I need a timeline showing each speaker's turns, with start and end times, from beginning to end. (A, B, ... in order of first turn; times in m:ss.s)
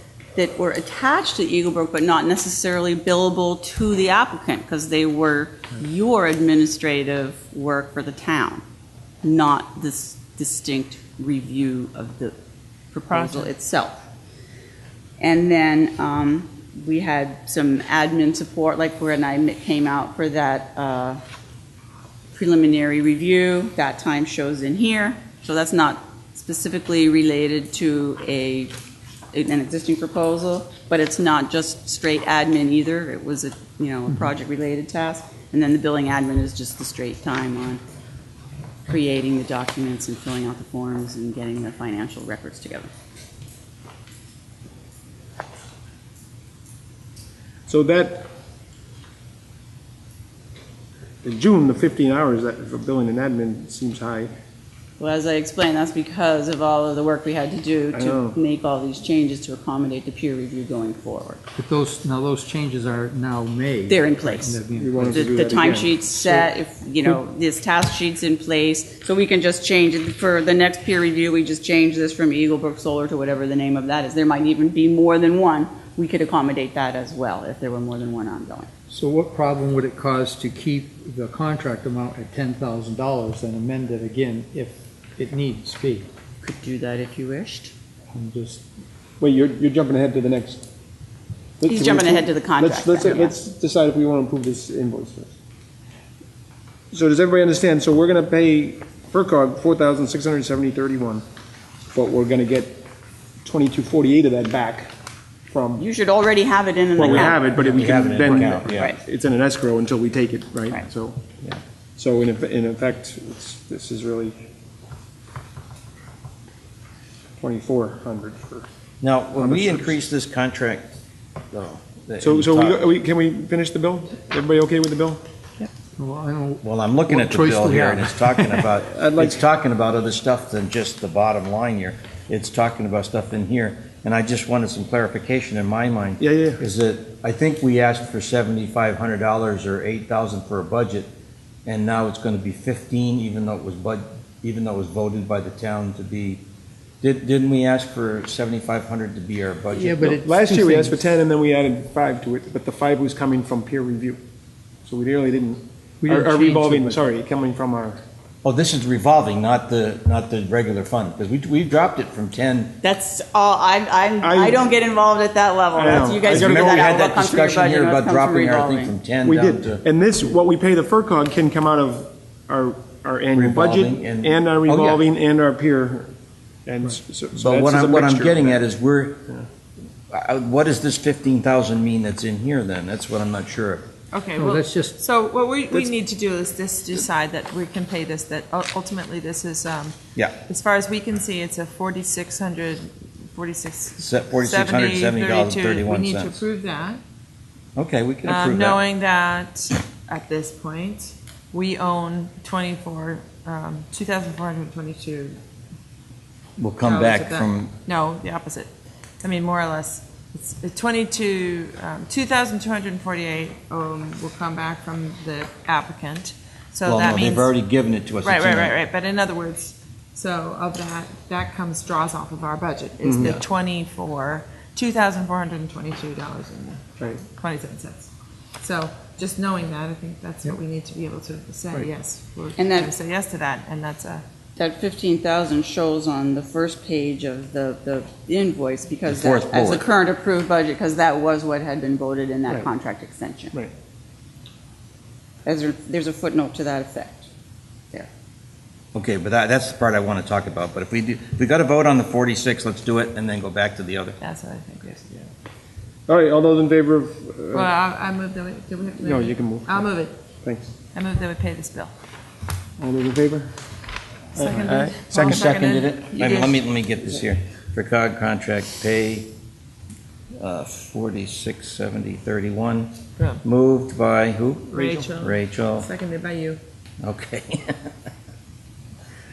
0:00.3-0:08.6 A
0:09.2-0:12.3 A
0:12.9-0:14.0 A
0:15.2-0:21.2 A
0:22.3-0:28.7 A
0:29.3-0:37.8 A
0:38.9-0:42.9 A
0:47.7-0:48.3 B
0:51.2-0:54.3 B
0:55.0-1:01.4 A
0:57.9-0:58.4 B
1:01.6-1:05.6 C
1:03.9-1:18.7 A
1:04.8-1:06.5 B
1:18.9-1:26.1 C
1:26.4-1:27.7 A
1:28.1-1:28.6 C
1:29.2-1:30.7 B
1:31.6-1:35.3 B
1:31.7-1:33.3 A
1:36.9-1:41.2 B
1:41.9-1:42.8 B
1:43.4-1:44.9 B
1:45.5-1:45.8 B
1:45.8-1:49.0 A
1:47.0-1:51.2 B
1:47.6-1:48.9 D
1:52.0-1:54.4 B
1:57.4-1:58.7 B
1:59.0-2:00.9 D
1:59.3-1:59.9 B
2:01.5-2:02.8 D
2:02.2-2:05.2 B
2:05.8-2:08.6 C
2:06.6-2:21.1 D
2:08.9-2:09.4 B
2:16.2-2:16.6 B
2:21.7-2:26.4 D
2:27.0-2:30.2 D
2:29.8-2:31.0 C
2:30.2-2:34.2 B
2:34.8-2:38.0 B
2:36.0-2:37.0 C
2:38.4-2:42.8 D
2:42.8-2:48.9 A
2:44.2-2:44.6 B
2:45.7-2:47.0 B
2:46.2-2:49.8 D
2:49.2-2:56.1 B
2:53.3-2:55.0 D
2:56.7-2:58.6 B
2:57.4-2:59.2 D
3:00.1-3:03.8 D
3:04.1-3:17.0 E
3:04.4-3:05.0 C
3:14.0-3:16.4 D
3:17.8-3:18.8 D
3:18.2-3:25.4 E
3:26.6-3:27.7 D
3:26.8-3:28.7 E
3:29.2-3:37.5 E
3:36.8-3:38.8 D
3:38.2-3:48.1 E
3:43.0-3:43.4 B
3:43.2-3:43.4 D
3:48.6-3:54.2 E
3:52.6-3:52.9 A
3:54.6-4:03.6 A
3:59.1-3:59.8 D
4:05.4-4:07.3 A
4:08.9-4:14.2 D
4:14.2-4:15.3 E
4:16.1-4:17.7 B
4:17.5-4:20.2 E
4:19.0-4:19.9 B
4:20.4-4:20.7 B
4:20.9-4:21.9 E
4:22.8-4:23.5 B
4:24.4-4:25.4 B
4:24.4-4:26.6 E
4:25.1-4:29.3 D
4:30.4-4:35.9 D
4:34.7-4:36.6 E
4:37.0-4:37.7 D